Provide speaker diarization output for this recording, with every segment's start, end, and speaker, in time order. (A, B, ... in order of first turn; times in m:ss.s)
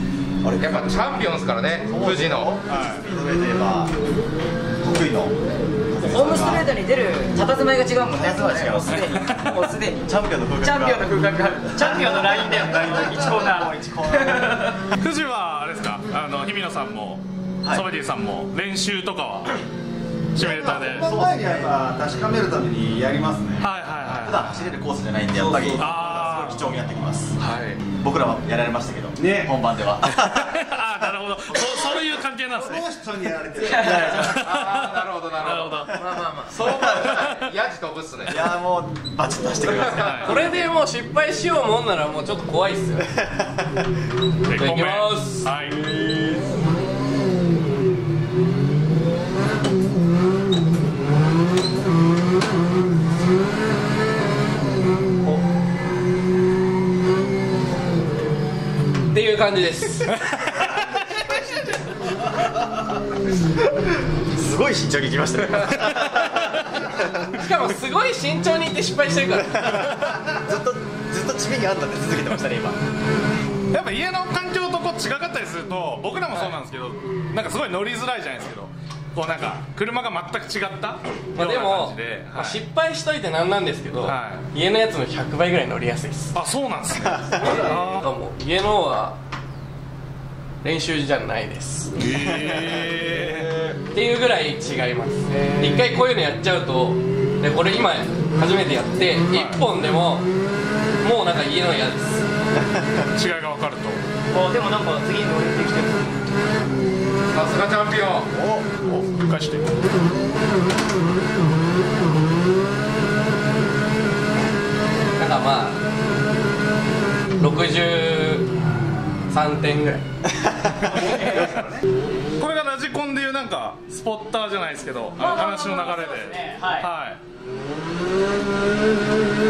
0:00.4-0:01.2 A
0:00.6-0:02.5 B
0:01.8-0:03.9 A
0:02.7-0:03.0 C
0:04.8-0:05.4 A
0:05.9-0:06.6 A
0:06.1-0:14.8 D
0:08.1-0:09.2 A
0:09.2-0:09.5 C
0:10.0-0:11.2 A
0:11.8-0:14.8 A
0:12.0-0:13.1 E
0:15.0-0:19.6 C
0:20.3-0:21.1 C
0:20.4-0:23.7 E
0:20.6-0:21.7 A
0:23.6-0:24.5 C
0:24.0-0:27.4 A
0:25.3-0:26.3 E
0:25.8-0:26.6 C
0:27.4-0:27.8 C
0:28.0-0:31.0 A
0:29.2-0:29.5 E
0:30.2-0:32.8 C
0:32.5-0:34.3 E
0:33.7-0:34.6 A
0:33.7-0:34.1 D
0:34.2-0:36.0 C
0:34.2-0:38.5 B
0:35.9-0:36.6 F
0:37.0-0:37.5 C
0:38.2-0:40.4 A
0:39.9-0:40.4 C
0:40.0-0:43.2 F
0:43.2-0:43.6 A
0:44.5-0:45.9 C
0:44.5-0:45.5 F
0:59.1-1:00.1 F
1:04.3-1:07.2 A
1:07.3-1:09.9 F
1:10.4-1:12.8 A
1:13.7-1:22.6 C
1:21.4-1:26.4 F
1:24.0-1:24.4 C
1:26.3-1:28.0 C
1:27.1-1:29.2 F
1:30.6-1:32.0 F
1:32.0-1:33.5 C
1:32.5-1:32.8 A
1:33.2-1:33.8 E
1:33.9-1:40.3 F
1:39.3-1:39.6 C
1:41.0-1:42.2 F
1:42.6-1:43.1 A
1:43.1-1:44.0 C
1:44.3-1:46.3 D
1:47.3-1:48.3 B
1:48.3-1:49.0 A
1:49.1-1:49.8 C
1:55.2-1:55.8 F
1:57.4-1:58.5 F
1:59.3-2:00.0 F
2:00.8-2:01.6 D
2:00.9-2:01.8 E
2:02.4-2:07.2 C
2:05.2-2:06.9 D